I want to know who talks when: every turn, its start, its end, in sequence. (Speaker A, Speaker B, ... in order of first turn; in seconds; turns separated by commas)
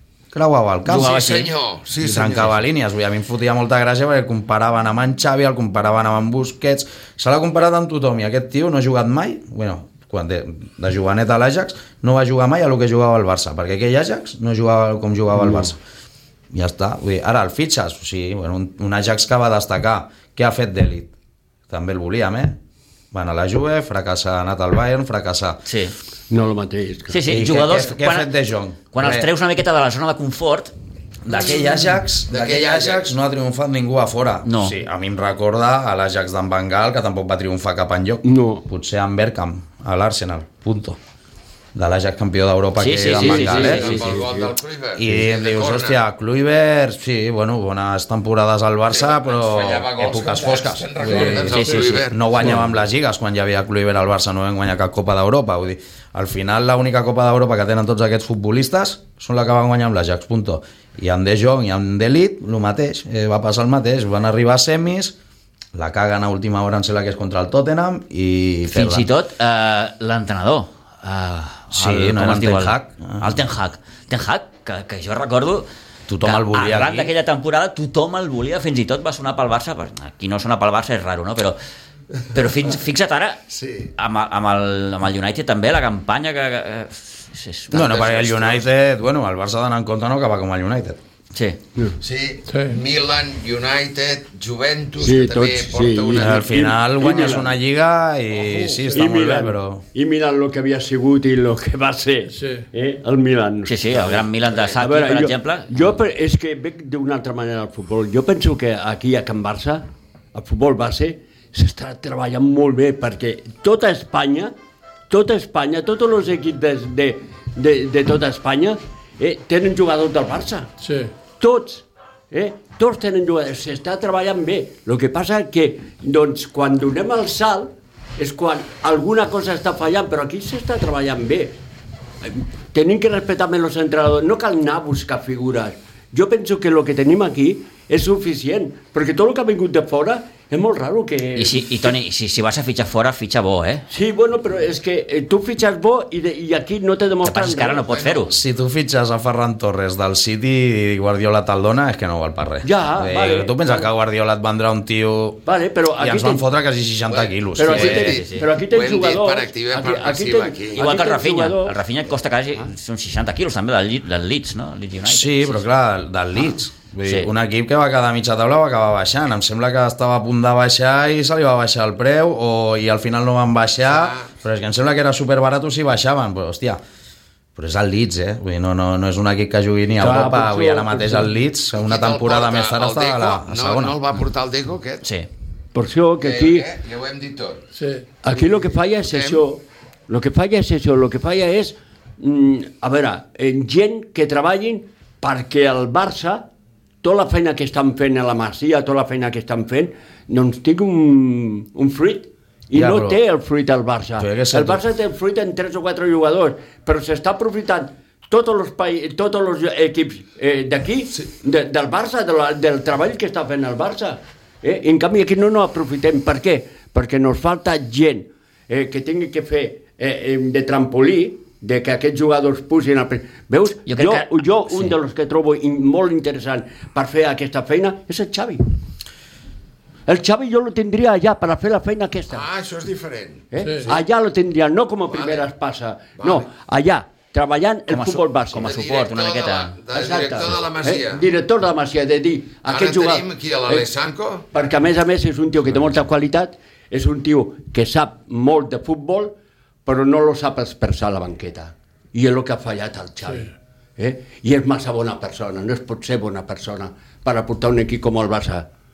Speaker A: 0.3-15.8, Speaker B: 0.8-2.6, Speaker C: 15.4-15.7, Speaker A: 16.5-21.1, Speaker A: 21.7-22.6, Speaker A: 23.1-25.6, Speaker D: 25.7-25.9, Speaker C: 26.3-27.2, Speaker D: 27.1-28.3, Speaker A: 27.3-29.3, Speaker D: 28.9-30.7, Speaker A: 31.2-41.0, Speaker B: 32.3-33.1, Speaker D: 34.5-34.7, Speaker C: 38.2-38.6, Speaker A: 41.7-44.0, Speaker D: 42.8-44.1, Speaker B: 43.1-46.0, Speaker C: 43.8-44.5, Speaker A: 44.9-51.4, Speaker B: 48.9-52.6, Speaker E: 51.0-51.6, Speaker C: 51.1-51.4, Speaker D: 51.5-52.1, Speaker A: 52.1-65.1, Speaker A: 65.7-69.1, Speaker D: 68.7-75.7, Speaker A: 71.7-73.4, Speaker A: 76.1-77.1, Speaker D: 76.2-81.6, Speaker D: 82.3-83.4, Speaker B: 83.5-83.9, Speaker D: 84.0-88.2, Speaker A: 87.7-91.0, Speaker B: 87.9-88.6, Speaker D: 91.3-91.6, Speaker B: 92.0-96.7, Speaker E: 92.5-92.8, Speaker C: 95.0-97.5, Speaker A: 96.1-99.8, Speaker E: 98.3-99.0, Speaker C: 98.9-104.2, Speaker E: 102.3-102.7, Speaker D: 103.7-106.0, Speaker C: 104.8-114.5, Speaker C: 115.1-120.7, Speaker E: 120.8-121.1, Speaker C: 121.4-131.6, Speaker C: 132.2-141.8, Speaker D: 141.3-143.8, Speaker C: 143.9-148.0, Speaker D: 147.2-148.3, Speaker B: 147.9-148.3, Speaker A: 148.3-155.4, Speaker C: 152.6-153.9, Speaker C: 155.4-156.4, Speaker A: 156.0-158.1, Speaker B: 157.1-160.9, Speaker C: 157.6-161.8, Speaker D: 160.8-165.6, Speaker A: 165.0-176.8, Speaker D: 167.0-167.3, Speaker B: 173.9-174.3, Speaker A: 177.6-184.0, Speaker C: 180.0-181.3, Speaker B: 181.7-185.1, Speaker D: 185.0-185.3, Speaker C: 185.7-186.7, Speaker B: 186.2-187.6, Speaker E: 187.7-188.1, Speaker C: 188.2-196.5, Speaker B: 188.3-189.4, Speaker C: 197.0-228.6, Speaker A: 202.7-203.2, Speaker A: 204.2-204.8, Speaker D: 223.8-224.9, Speaker C: 230.1-232.4, Speaker B: 232.3-233.9, Speaker C: 233.5-238.8, Speaker E: 233.6-233.9, Speaker B: 235.1-235.4, Speaker B: 236.2-236.5, Speaker D: 237.9-239.8, Speaker B: 238.6-241.2, Speaker C: 239.9-243.9, Speaker B: 242.7-244.5, Speaker C: 244.5-249.3, Speaker C: 249.8-258.7